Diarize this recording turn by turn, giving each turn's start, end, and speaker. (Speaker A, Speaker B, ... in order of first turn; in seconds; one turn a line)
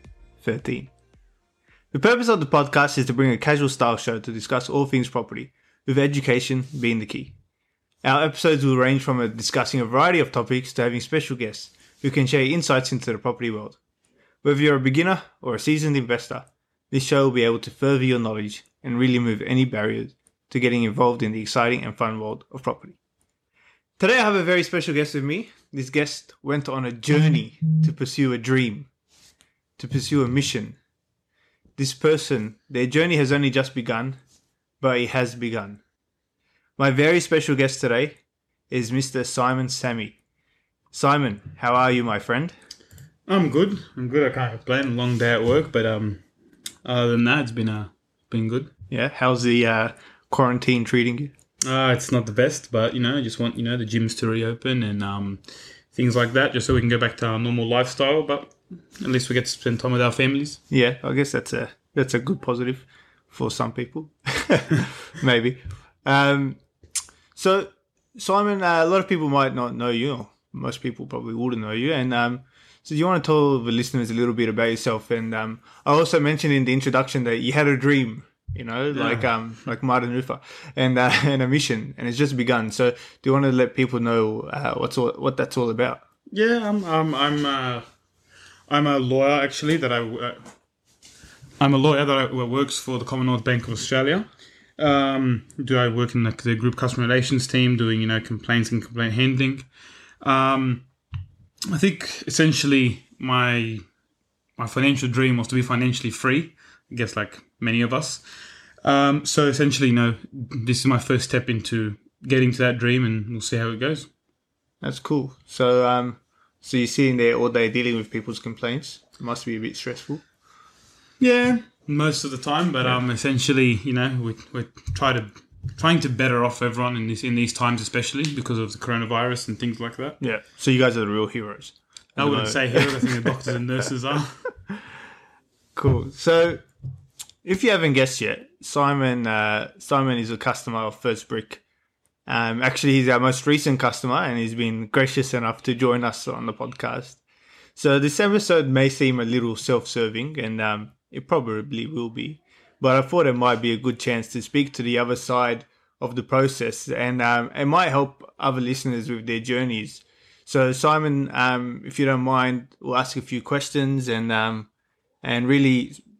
Speaker A: 0.4-0.9
Speaker A: 1.9-7.3
Speaker A: 8.0-13.8
Speaker A: 14.4-22.9
Speaker A: 24.0-28.9
Speaker A: 29.8-30.8
Speaker A: 31.8-34.2
Speaker A: 34.8-35.8
Speaker A: 36.8-38.2
Speaker A: 38.7-40.2
Speaker A: 40.9-42.5
Speaker B: 43.3-46.2
Speaker B: 46.8-48.7
Speaker A: 48.9-51.3
Speaker B: 51.6-60.6
Speaker A: 60.7-66.6
Speaker A: 67.3-86.0
Speaker B: 78.9-79.2
Speaker B: 86.3-87.8
Speaker B: 88.7-90.5
Speaker B: 91.6-99.7
Speaker B: 100.2-100.9
Speaker B: 101.7-103.8
Speaker B: 104.6-108.2
Speaker B: 108.8-114.1
Speaker A: 114.8-120.2
Speaker B: 121.2-130.2
Speaker A: 130.2-133.5
Speaker B: 132.2-134.5
Speaker A: 135.7-136.6
Speaker A: 137.4-141.6
Speaker A: 142.3-147.2
Speaker A: 147.8-164.7
Speaker A: 165.2-166.0